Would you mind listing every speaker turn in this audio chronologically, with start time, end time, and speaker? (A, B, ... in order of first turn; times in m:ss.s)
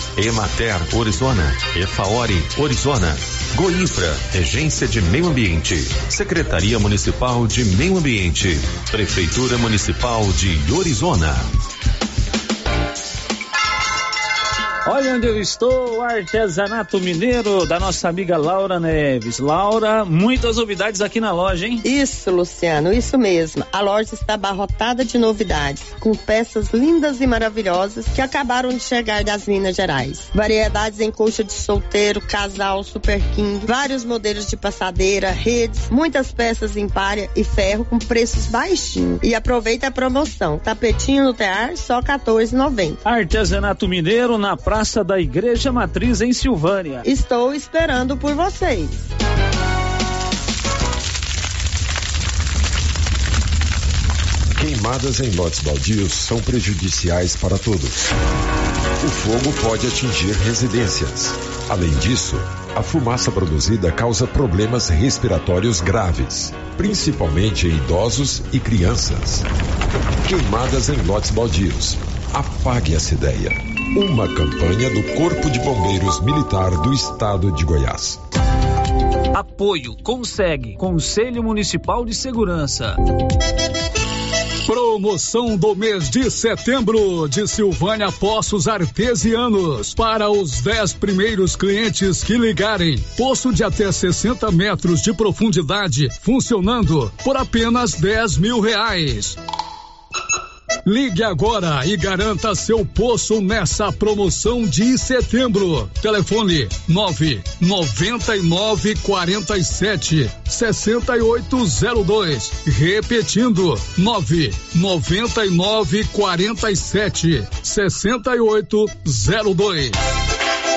0:02.0-0:02.5 A
0:05.2-0:08.3 A
0:09.8-0:11.2 A
0:14.8-0:21.8 B
0:21.8-0:43.0 C
0:43.0-0:47.0 B
0:47.0-0:49.0 C
0:54.5-0:58.0 D
0:59.0-1:09.4 D
1:10.2-1:18.2 D
1:19.3-1:23.0 B
1:24.6-1:39.4 E
1:40.8-2:00.0 E